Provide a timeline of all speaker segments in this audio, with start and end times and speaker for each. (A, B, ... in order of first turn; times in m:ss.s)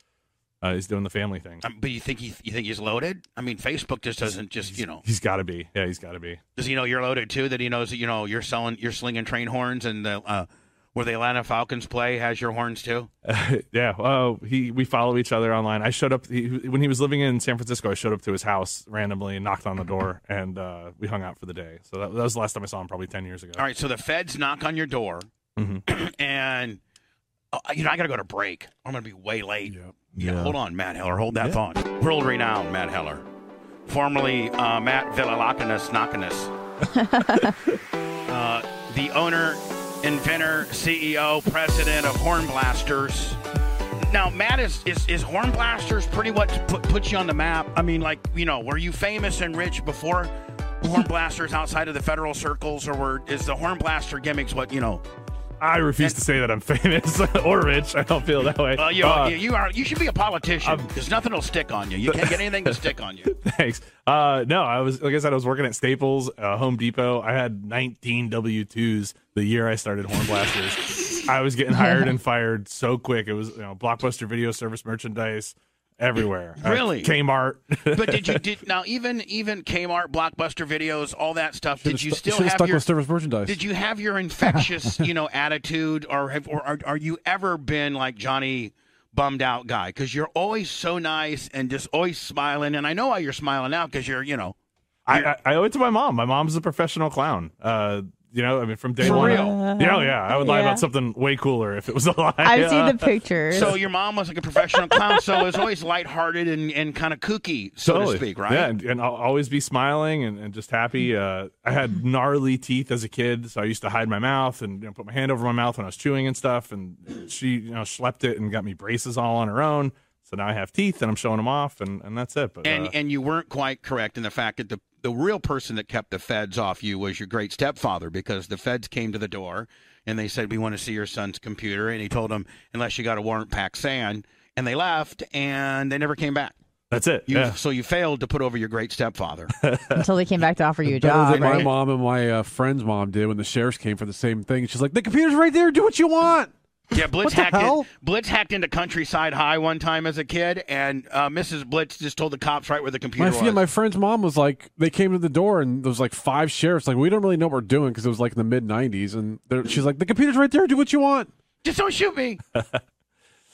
0:00.6-0:01.6 A
0:01.6-0:05.0 B
0:04.7-0:06.4 A
0:06.6-0:13.1 B
0:13.2-0:23.6 A
0:23.6-0:25.3 B
0:25.6-0:25.8 A
0:25.9-0:26.8 B
0:27.5-0:33.2 B
0:33.9-0:36.5 B
0:37.0-0:37.5 C
0:37.4-0:37.8 A
0:38.3-0:43.4 B
0:44.0-0:55.0 B
0:55.6-0:59.4 A
0:58.7-1:03.3 B
1:00.6-1:00.9 A
1:02.1-1:18.4 A
1:11.7-1:12.2 C
1:16.6-1:17.1 B
1:17.9-1:22.9 B
1:21.8-1:23.6 D
1:23.4-1:34.6 B
1:35.0-1:43.7 A
1:39.0-1:39.6 B
1:39.0-1:40.8 C
1:42.4-1:43.7 C
1:43.5-1:48.7 B
1:47.8-2:02.9 A
2:02.6-2:16.6 B
2:16.9-2:17.6 A
2:17.3-2:19.5 B
2:19.6-2:20.0 A
2:20.0-2:21.7 C
2:20.8-2:26.5 D
2:21.3-2:21.7 B
2:26.9-2:33.6 B
2:27.2-2:27.9 D
2:33.2-2:41.3 D
2:41.6-2:42.4 B